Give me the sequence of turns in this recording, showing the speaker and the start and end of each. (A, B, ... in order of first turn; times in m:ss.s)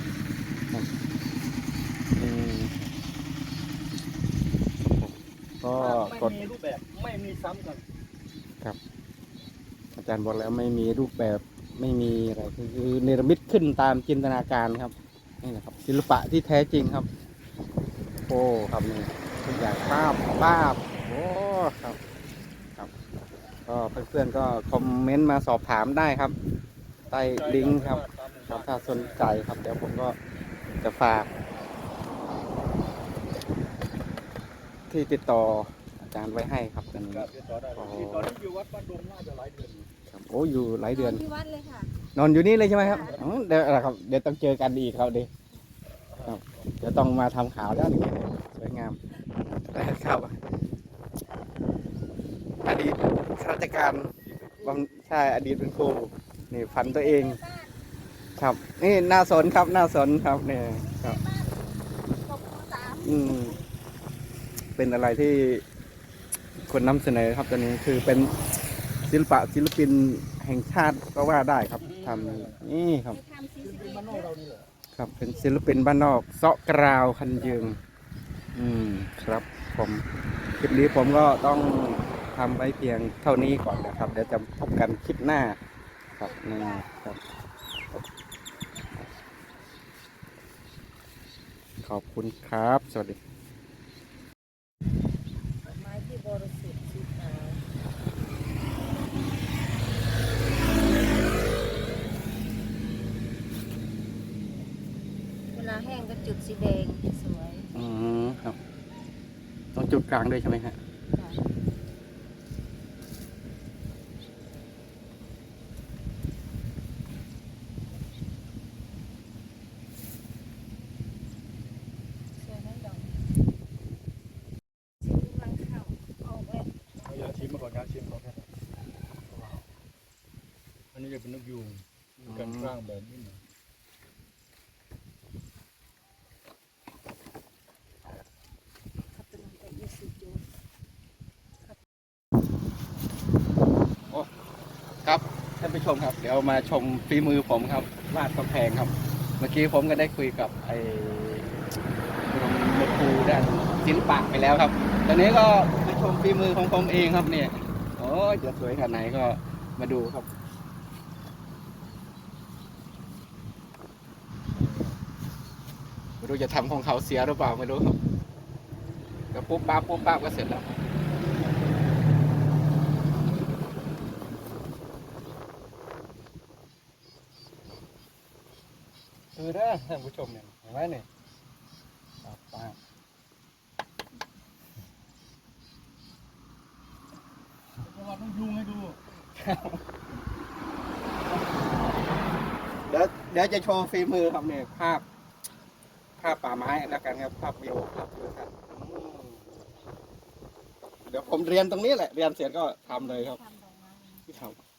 0:02.2-0:02.9 A
0:04.8-0:06.4 A
0:05.7-0:07.8 B
0:09.9-0:17.1 A
0:18.2-0:22.0 A
0:23.6-0:26.4 A
0:27.1-0:29.2 B
0:27.1-0:30.2 A
0:30.8-0:31.3 A
0:34.9-0:38.3 A
0:37.1-0:39.8 B
0:40.1-0:41.2 A
0:40.9-0:41.9 C
0:42.1-0:45.3 A
0:42.8-0:43.2 C
0:42.9-0:43.4 B
0:46.1-0:46.8 B
0:46.2-0:49.0 A
0:49.5-0:50.4 A
0:52.6-0:57.4 A
0:56.8-0:57.7 C
0:58.4-1:01.2 A
1:00.8-1:03.6 C
1:03.0-1:03.6 A
1:04.8-1:05.6 A
1:06.6-1:08.3 A
1:09.0-1:13.2 A
1:11.8-1:12.6 B
1:13.1-1:14.3 C
1:13.6-1:14.7 B
1:14.9-1:17.8 A
1:17.3-1:17.7 B
1:18.5-1:20.0 A
1:20.6-1:25.6 A
1:23.8-1:24.2 C
1:26.2-1:26.9 C
1:26.2-1:27.2 A
1:31.8-1:33.2 A
1:35.6-1:37.6 C
1:45.5-1:47.7 C
1:47.7-1:48.6 A
1:49.7-1:50.8 A
1:51.1-1:51.4 C
2:02.4-2:03.2 C
2:05.0-2:06.7 C
2:07.0-2:08.5 B
2:09.3-2:09.6 B
2:10.9-2:13.4 B
2:12.2-2:12.7 A
2:19.1-2:20.4 C
2:25.0-2:31.5 A
2:32.3-2:40.3 A
2:44.6-2:45.0 B
2:46.2-2:48.0 A
2:49.3-2:50.7 A
2:59.3-3:01.0 A
3:02.2-3:02.8 A
3:07.8-3:09.0 B
3:09.3-3:09.8 A
3:12.8-3:15.0 A
3:16.2-3:19.4 A
3:21.0-3:23.4 A
3:22.9-3:24.2 C
3:24.3-3:24.6 A